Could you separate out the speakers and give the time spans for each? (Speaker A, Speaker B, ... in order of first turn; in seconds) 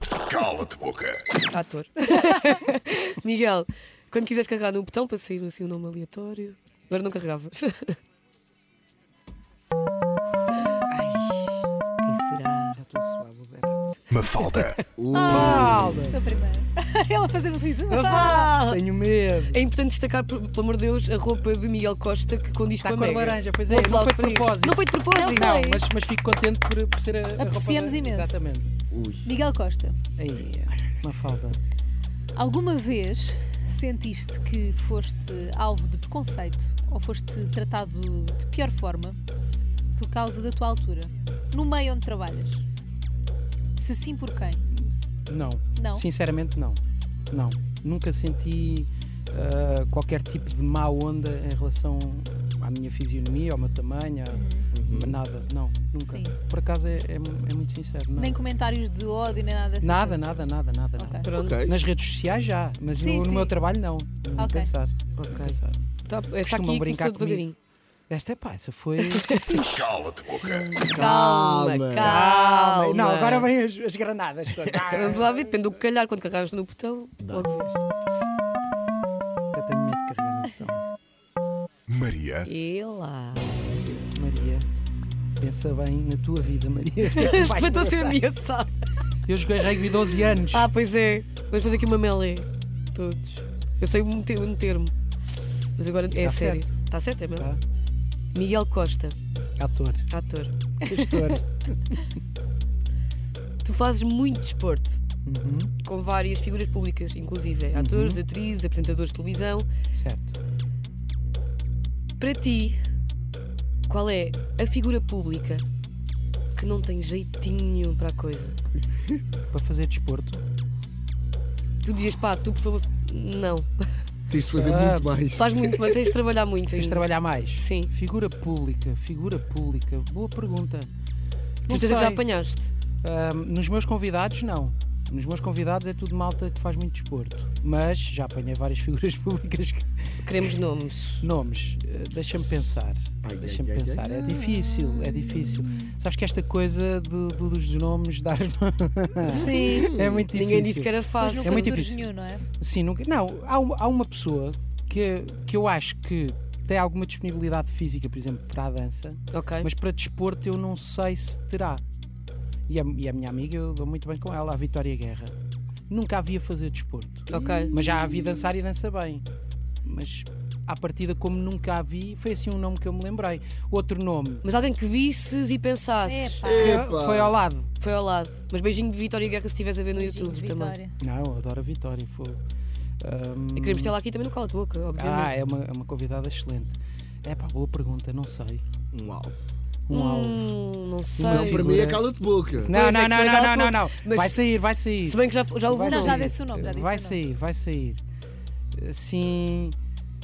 Speaker A: 0.3-1.3, 14.1-14.8, 69.7-70.7, 81.9-82.5
Speaker B: 1.5-8.0, 12.0-12.8, 17.9-18.8, 19.5-25.6, 61.2-61.6, 65.2-67.5, 69.0-69.6, 70.8-73.5, 74.9-77.8, 82.4-83.5, 87.0-88.8, 89.7-94.9, 95.7-97.5, 98.3-99.2, 100.1-101.4, 103.6-105.0, 105.8-109.7, 112.2-112.8, 113.9-115.6, 116.5-118.6, 121.8-123.7, 125.4-127.9, 131.7-132.7, 140.2-141.2, 149.3-151.8, 159.3-159.7, 167.3-167.8, 174.4-176.4, 177.8-180.8, 183.6-185.4, 189.9-191.9, 192.7-194.4, 195.0-196.3
Speaker C: 10.9-11.7, 12.7-16.2, 18.5-19.6, 22.8-28.7, 30.2-31.6, 44.7-46.8, 47.3-58.4, 59.8-67.5, 68.1-71.1, 72.0-75.5, 79.5-80.8, 83.5-84.7, 85.4-88.2, 89.2-90.7, 96.2-96.8, 97.3-97.6, 99.6-100.1, 100.8-102.0, 105.2-105.7, 107.7-108.2, 109.9-110.3, 119.5-120.4, 124.5-125.2, 126.7-130.9, 131.7-132.2, 133.0-140.2, 141.2-161.8, 162.7-165.3, 165.9-169.2, 169.8-174.4, 176.5-177.7, 181.0-182.4, 183.0-183.9, 184.9-188.6, 189.9-190.6, 191.2-198.0, 198.7-199.8
Speaker D: 15.0-16.1, 28.9-29.3, 54.7-55.2, 61.3-61.7, 70.9-72.2, 77.2-77.5, 124.3-126.0, 143.2-144.3, 149.3-150.2, 176.4-177.4, 188.9-189.3, 191.2-192.7
Speaker E: 15.1-18.5, 25.1-25.8, 27.4-28.4, 29.2-30.0, 32.3-39.2, 40.0-42.6, 43.8-44.7, 45.8-46.0, 54.3-54.7, 56.0-56.3, 58.1-60.2, 61.0-61.3, 62.9-63.6, 64.4-64.7, 151.2-152.4, 176.1-176.8, 179.9-180.9, 195.9-197.2